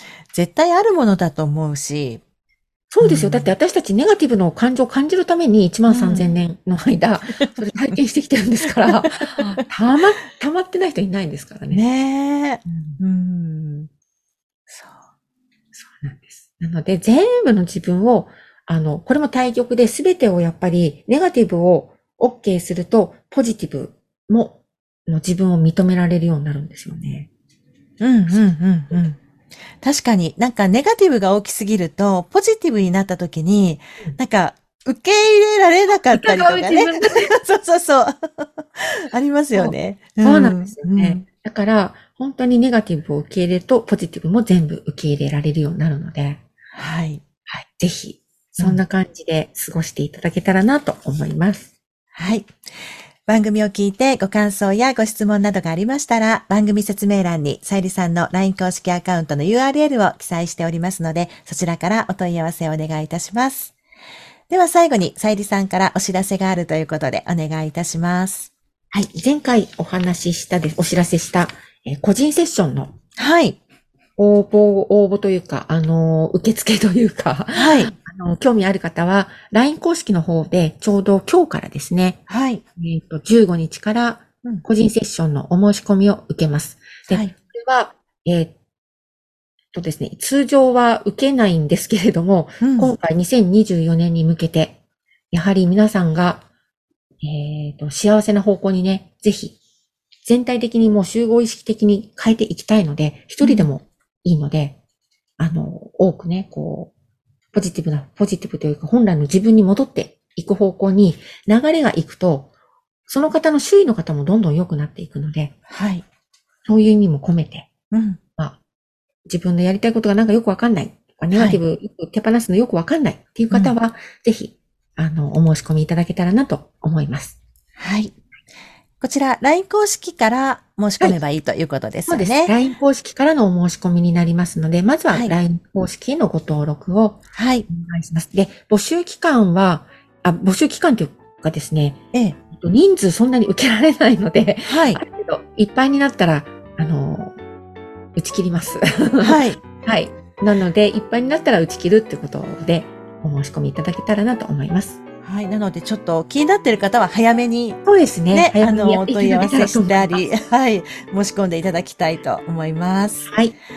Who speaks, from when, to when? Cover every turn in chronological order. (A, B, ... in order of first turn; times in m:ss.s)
0:00.3-0:02.2 A
0:02.9-0:11.8 B
0:03.0-0:03.5 A
0:05.9-0:06.3 A
0:08.8-0:09.6 A
0:11.7-0:13.9 A
0:12.7-0:13.0 B
0:14.7-0:15.0 A
0:15.7-0:27.3 B
0:28.0-0:29.2 A
0:29.8-0:41.2 A
0:36.1-0:37.3 B
0:39.5-0:46.4 B
0:46.7-0:47.2 A
0:47.5-0:51.7 B
0:52.2-0:52.5 A
0:53.3-1:03.7 A
1:04.5-1:08.5 A
1:08.9-1:12.9 B
1:13.2-1:13.6 A
1:14.2-1:22.2 B
1:17.5-1:17.9 A
1:22.3-1:22.6 A
1:22.8-1:28.5 B
1:29.7-1:34.8 B
1:32.6-1:32.9 A
1:35.3-1:36.4 B
1:37.2-1:39.6 B
1:40.2-1:44.8 B
1:43.4-1:43.7 A
1:45.4-1:46.9 B
1:47.5-1:52.5 B
1:53.1-1:55.5 B
1:55.7-1:56.0 A
1:56.6-1:57.7 B
1:57.9-1:58.2 A
1:59.3-2:07.4 B
2:01.3-2:01.6 A
2:07.8-2:08.1 A
2:09.0-2:12.5 A
2:12.1-2:17.2 B
2:17.3-2:17.7 A
2:17.7-2:22.0 B
2:22.5-2:27.3 B
2:24.6-2:25.0 A
2:28.2-2:35.0 B
2:29.2-2:29.6 A
2:35.2-2:37.8 A
2:37.8-2:40.2 B
2:38.3-2:43.3 A
2:43.2-2:43.5 B